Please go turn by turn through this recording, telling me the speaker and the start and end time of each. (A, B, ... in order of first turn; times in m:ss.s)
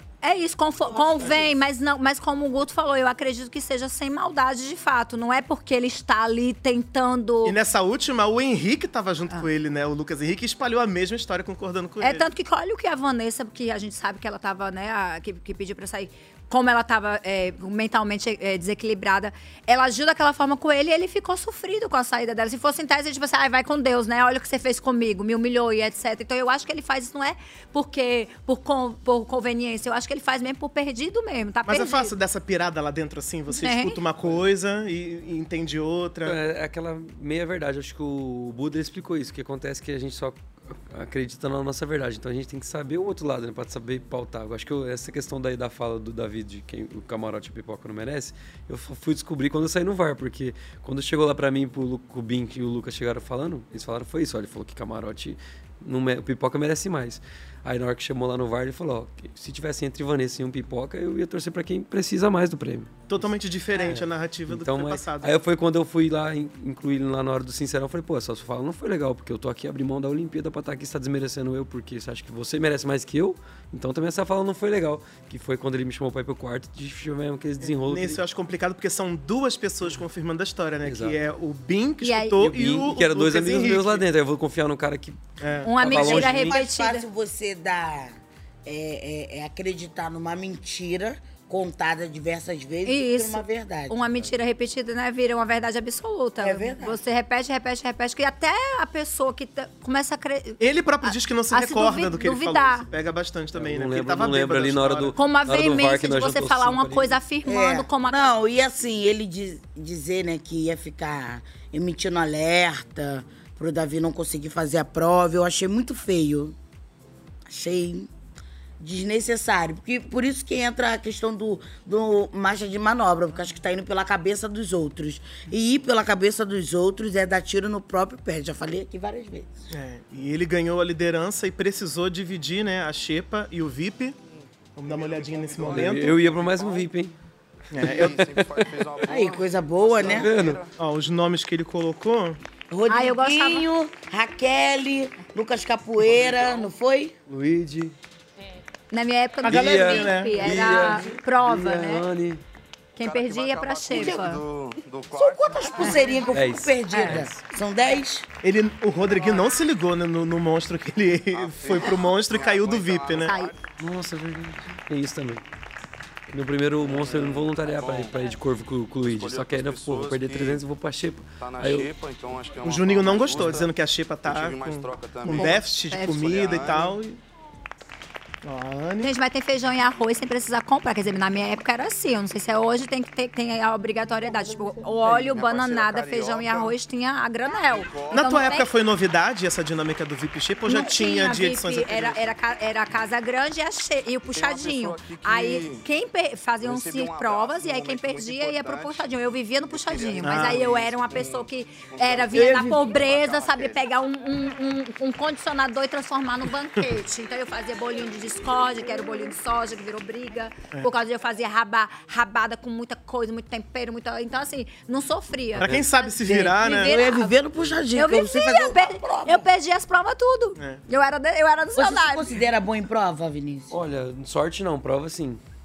0:00.2-0:07.6 A
0:00.9-0:01.6 B
0:07.4-0:12.3 C
0:12.0-0:32.1 A
0:31.7-0:36.4 C
0:33.5-0:34.0 A
0:36.2-1:18.2 D
1:03.1-1:05.4 C
1:17.6-1:24.0 C
1:20.8-1:21.2 D
1:22.0-1:22.4 A
1:22.4-1:25.2 D
1:25.4-1:26.3 C
1:25.6-1:27.1 A
1:25.8-1:26.6 D
1:25.8-1:34.0 B
1:32.8-1:42.8 A
1:36.4-1:37.0 B
1:40.6-1:45.2 C
1:43.5-1:47.2 D
1:45.1-1:48.3 A
1:47.4-1:56.6 B
1:57.5-1:58.1 B
1:58.8-2:09.6 B
2:09.7-2:14.2 C
2:14.8-2:16.2 C
2:14.9-2:16.8 E
2:15.6-2:17.1 D
2:17.7-2:18.2 C
2:17.8-2:19.1 D
2:17.8-2:20.6 E
2:19.1-2:20.3 B
2:20.0-2:20.6 D
2:20.8-2:22.4 C
2:22.7-2:27.1 B
2:22.9-2:23.7 A
2:26.2-2:26.6 E
2:27.3-2:27.9 D
2:28.9-2:32.0 A
2:29.4-2:31.0 C
2:29.4-2:32.4 D
2:33.0-2:34.4 A
2:33.0-2:35.8 E
2:33.9-2:34.3 B
2:35.1-2:38.2 B
2:36.3-2:37.4 D
2:36.9-2:37.2 A
2:38.4-2:43.4 C
2:41.5-2:43.3 E
2:43.2-2:43.5 A
2:43.8-2:45.4 D
2:46.3-2:51.9 D
2:47.1-2:48.1 E
2:49.1-2:50.4 E
2:51.4-2:53.7 E
2:52.6-2:57.2 C
2:54.2-2:56.9 E
2:55.3-2:56.3 A
2:58.4-2:59.1 C
2:59.0-3:08.7 A
3:05.1-3:06.7 E
3:08.1-3:12.2 C
3:10.6-3:37.4 A
3:14.4-3:15.8 E
3:16.6-3:19.0 E
3:20.0-3:21.4 E
3:20.2-3:20.6 C
3:21.9-3:23.8 E
3:35.6-3:37.0 C
3:36.2-3:39.4 B
3:37.9-3:42.3 A
3:41.8-3:43.7 B
3:43.7-3:45.4 D